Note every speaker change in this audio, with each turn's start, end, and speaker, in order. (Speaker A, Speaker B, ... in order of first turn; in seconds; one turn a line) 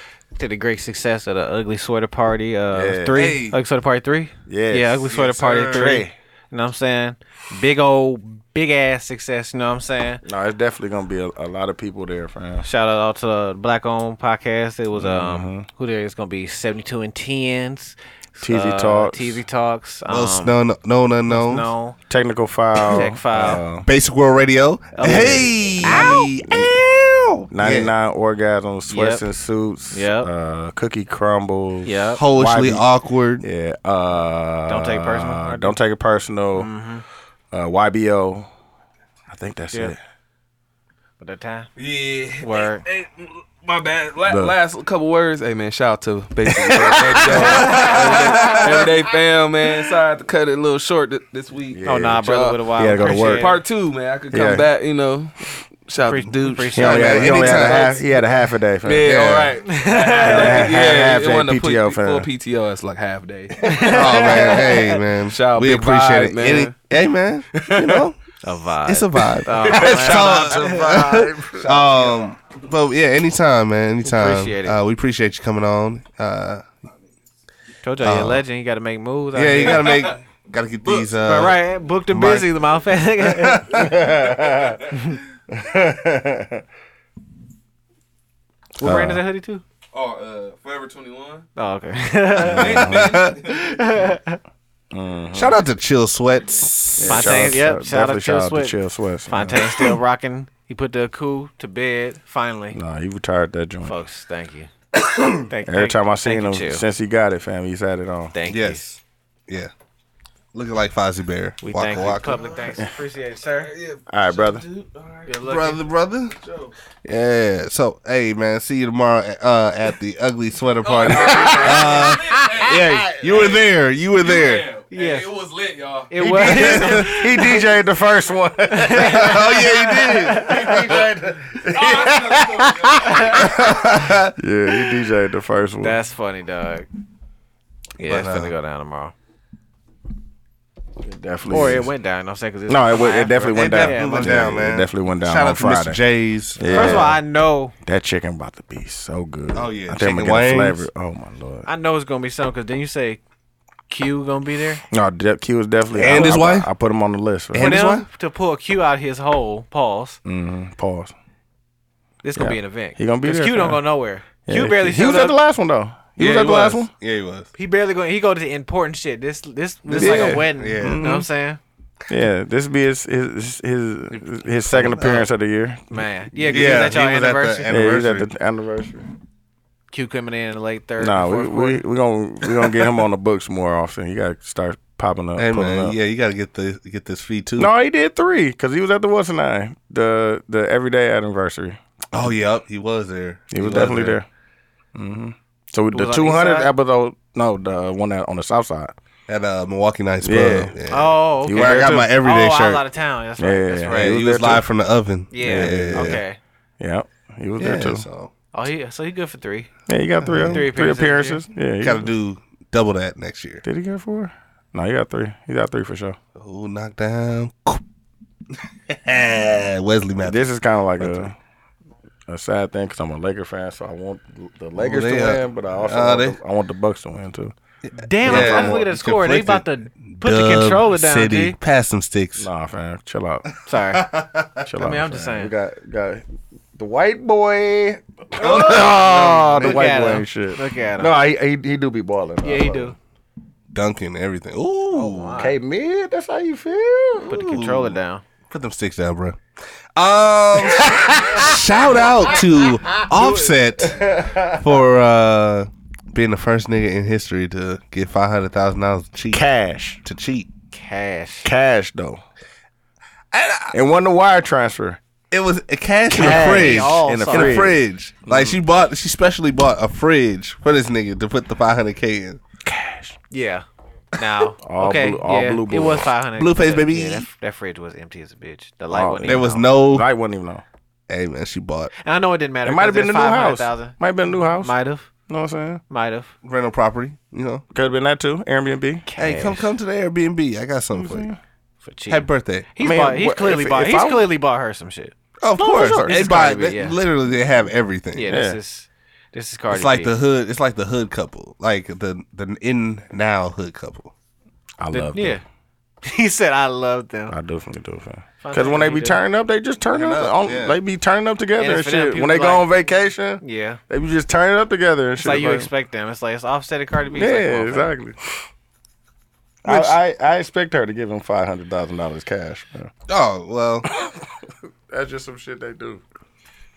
Speaker A: 0.3-10.2
Speaker B: 2.7-3.4
Speaker C: 3.1-3.6
Speaker B: 4.5-5.1
Speaker C: 5.1-6.0
Speaker B: 5.7-6.1
Speaker B: 10.2-12.7
Speaker A: 12.6-20.6
Speaker B: 14.9-15.7
Speaker B: 18.4-19.4
Speaker C: 20.1-21.7
Speaker A: 21.3-22.0
Speaker B: 22.1-23.9
Speaker A: 22.9-23.6
Speaker C: 23.8-27.9
Speaker A: 24.9-26.2
Speaker B: 25.0-26.7
Speaker B: 27.5-32.9
Speaker A: 28.9-29.2
Speaker A: 29.9-30.3
Speaker A: 31.8-32.2
Speaker C: 32.2-33.5
Speaker B: 33.4-36.7
Speaker A: 34.7-35.8
Speaker A: 36.5-37.0
Speaker B: 37.5-38.5
Speaker B: 39.3-40.0
Speaker A: 41.2-41.7
Speaker D: 41.8-55.3
Speaker A: 42.4-42.8
Speaker B: 44.2-44.5
Speaker B: 46.7-48.5
Speaker C: 47.6-48.5
Speaker B: 51.7-52.2
Speaker A: 51.9-53.5
Speaker B: 52.7-53.5
Speaker B: 54.3-54.6
Speaker D: 55.9-56.8
Speaker A: 56.0-57.7
Speaker B: 56.7-59.2
Speaker C: 56.8-58.0
Speaker D: 57.5-58.0
Speaker D: 58.8-63.6
Speaker C: 59.0-59.5
Speaker A: 59.7-60.7
Speaker B: 60.2-62.3
Speaker A: 63.6-65.0
Speaker C: 63.8-68.2
Speaker D: 65.3-66.7
Speaker D: 67.5-68.0
Speaker A: 68.4-71.0
Speaker C: 68.8-76.7
Speaker B: 69.7-72.0
Speaker A: 74.0-74.8
Speaker A: 77.8-80.1
Speaker C: 78.0-78.4
Speaker C: 79.3-82.6
Speaker A: 81.2-83.7
Speaker C: 83.2-83.9
Speaker B: 83.7-84.8
Speaker B: 85.5-86.6
Speaker A: 88.8-89.6
Speaker B: 88.8-89.2
Speaker D: 89.9-91.5
Speaker A: 91.5-92.9
Speaker B: 92.4-93.2
Speaker D: 92.5-93.7
Speaker C: 92.6-93.4
Speaker A: 93.4-94.4
Speaker B: 94.9-95.6
Speaker C: 95.3-97.6
Speaker B: 97.0-99.9
Speaker A: 97.0-98.8
Speaker A: 99.3-102.8
Speaker B: 102.7-104.0
Speaker A: 103.8-104.7
Speaker C: 105.0-105.3
Speaker A: 105.5-106.8
Speaker B: 105.6-108.3
Speaker A: 108.3-108.9
Speaker C: 108.5-109.7
Speaker C: 110.5-112.4
Speaker A: 111.6-113.7
Speaker D: 112.2-112.7
Speaker D: 113.5-115.5
Speaker B: 114.1-114.6
Speaker A: 115.2-115.8
Speaker C: 115.4-116.4
Speaker D: 116.4-116.7
Speaker C: 117.0-124.7
Speaker D: 120.8-126.7
Speaker B: 121.2-123.2
Speaker A: 124.9-125.3
Speaker A: 126.1-127.5
Speaker B: 126.2-133.2
Speaker C: 126.3-127.2
Speaker A: 128.7-129.6
Speaker C: 128.9-131.0
Speaker A: 130.1-130.7
Speaker D: 130.7-133.4
Speaker C: 133.3-134.3
Speaker B: 134.4-136.0
Speaker A: 135.8-136.9
Speaker A: 138.0-139.1
Speaker C: 138.0-138.5
Speaker B: 141.0-141.9
Speaker A: 141.5-144.4
Speaker B: 142.7-146.0
Speaker C: 143.5-147.1
Speaker B: 146.6-147.2
Speaker A: 146.7-147.7
Speaker B: 147.8-151.7
Speaker C: 149.5-150.9
Speaker A: 151.7-153.2
Speaker A: 153.9-154.8
Speaker B: 154.9-157.7
Speaker C: 155.9-156.7
Speaker A: 156.1-156.4
Speaker C: 157.5-158.1
Speaker A: 157.5-160.2
Speaker B: 160.2-161.1
Speaker A: 162.2-165.4
Speaker B: 162.3-163.8
Speaker B: 164.4-166.9
Speaker C: 166.2-167.5
Speaker A: 167.5-171.6
Speaker C: 169.8-171.0
Speaker B: 170.0-171.3
Speaker B: 172.1-176.9
Speaker C: 174.1-175.2
Speaker A: 174.7-175.2
Speaker A: 175.9-177.7
Speaker C: 176.5-178.3
Speaker B: 177.7-179.1
Speaker A: 179.9-181.8
Speaker B: 181.0-185.9
Speaker C: 185.3-187.7
Speaker B: 187.6-191.8
Speaker C: 192.1-194.2
Speaker B: 193.5-194.2
Speaker B: 194.9-198.9
Speaker A: 195.9-196.7
Speaker C: 199.3-202.8
Speaker B: 200.2-200.7
Speaker A: 200.9-204.2
Speaker B: 201.4-202.1
Speaker B: 203.4-204.7
Speaker C: 203.9-206.2
Speaker A: 205.3-206.4
Speaker B: 205.4-206.2
Speaker B: 206.8-208.1
Speaker C: 207.6-208.3
Speaker A: 208.5-209.7
Speaker B: 209.9-212.1
Speaker C: 210.2-210.7
Speaker A: 210.4-211.4
Speaker C: 211.8-213.6
Speaker B: 213.6-216.2
Speaker C: 216.3-217.8
Speaker C: 218.9-221.3
Speaker B: 220.2-221.3
Speaker B: 222.3-227.5
Speaker C: 224.8-226.4
Speaker A: 227.9-231.6
Speaker B: 228.2-228.9
Speaker C: 228.2-232.5
Speaker B: 232.4-233.5
Speaker A: 233.6-234.1
Speaker C: 233.7-234.7
Speaker B: 234.6-242.9
Speaker A: 234.8-235.5
Speaker C: 238.3-240.2
Speaker A: 238.4-241.1
Speaker A: 242.4-242.9
Speaker C: 243.7-245.4
Speaker A: 244.9-245.6
Speaker B: 245.4-247.3
Speaker C: 247.2-248.0
Speaker A: 247.2-248.2
Speaker C: 248.5-249.4
Speaker C: 249.9-259.5
Speaker B: 250.7-251.6
Speaker B: 252.3-254.7
Speaker B: 259.3-260.0
Speaker C: 260.0-260.5
Speaker A: 260.7-261.5
Speaker B: 261.4-262.2
Speaker C: 263.3-263.8
Speaker B: 263.7-265.0
Speaker C: 265.3-272.4
Speaker A: 266.1-267.7
Speaker B: 266.1-267.8
Speaker B: 272.6-273.2
Speaker A: 273.3-279.7
Speaker B: 274.6-276.1
Speaker C: 276.3-277.3
Speaker B: 278.9-280.6
Speaker C: 279.2-280.1
Speaker C: 281.1-281.9
Speaker A: 282.0-285.1
Speaker B: 282.6-284.7
Speaker B: 285.3-285.8
Speaker A: 285.9-286.3
Speaker C: 286.4-287.6
Speaker B: 287.7-289.1
Speaker A: 289.1-289.7
Speaker C: 289.2-291.3
Speaker B: 290.9-291.4
Speaker A: 291.8-297.0
Speaker C: 292.1-292.7
Speaker B: 292.8-294.3
Speaker C: 295.4-298.3
Speaker B: 295.6-296.2
Speaker A: 298.1-300.1
Speaker B: 298.2-298.6
Speaker C: 299.7-304.1
Speaker B: 304.8-305.4
Speaker A: 304.9-305.4
Speaker A: 306.0-307.4
Speaker B: 307.3-315.7
Speaker A: 308.4-309.2
Speaker C: 309.9-310.8
Speaker A: 311.6-312.7
Speaker A: 313.4-313.8
Speaker A: 315.2-317.9
Speaker B: 317.1-318.3
Speaker B: 319.6-322.9
Speaker A: 319.6-320.0
Speaker C: 323.1-323.9
Speaker B: 324.9-326.0